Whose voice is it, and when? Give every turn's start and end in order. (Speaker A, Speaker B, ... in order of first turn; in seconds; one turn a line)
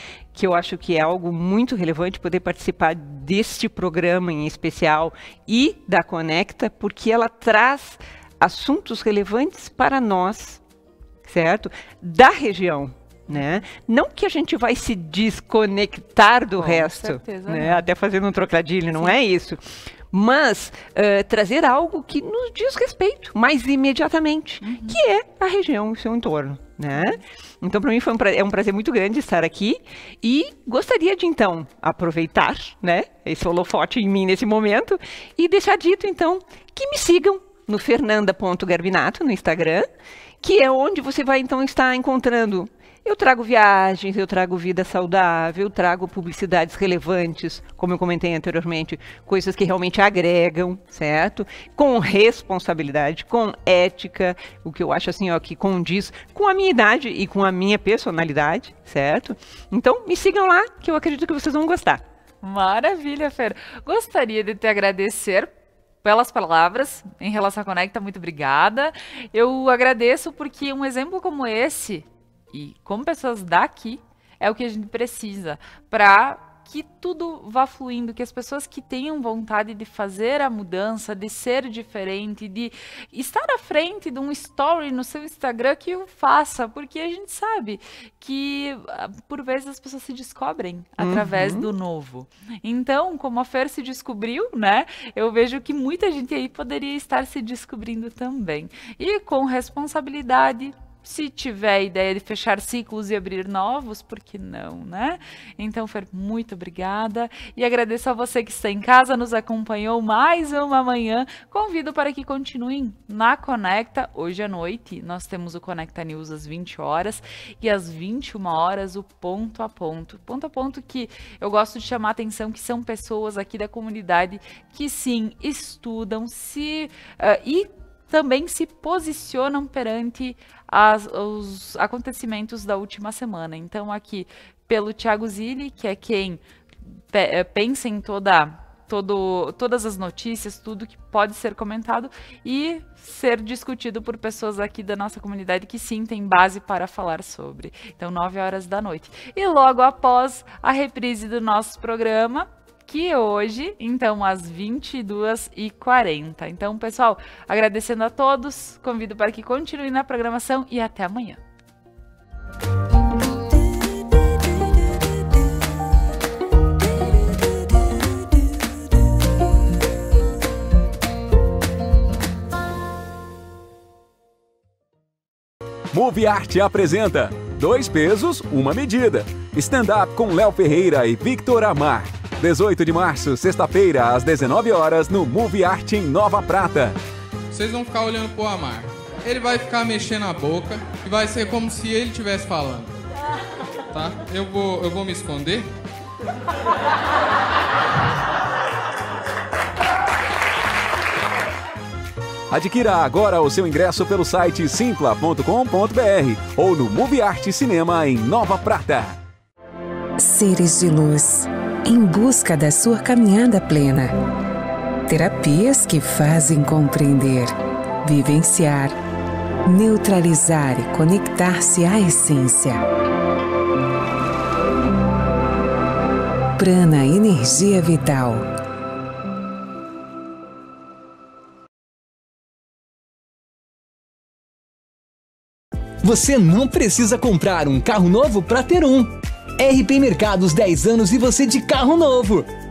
Speaker A: 0.3-10.6
Speaker A: 11.2-39.9
Speaker B: 13.3-13.6
Speaker B: 16.6-17.9
Speaker B: 24.6-25.0
Speaker B: 26.9-27.2
Speaker A: 40.4-62.0
Speaker B: 62.4-136.4
Speaker A: 91.0-91.7
Speaker B: 137.1-161.4
Speaker C: 175.9-186.9
Speaker D: 187.5-192.9
Speaker D: 193.9-195.7
Speaker C: 202.5-209.2
Speaker E: 210.2-214.1
Speaker E: 215.1-219.0
Speaker E: 219.6-222.8
Speaker E: 226.6-228.5
Speaker F: 236.0-242.5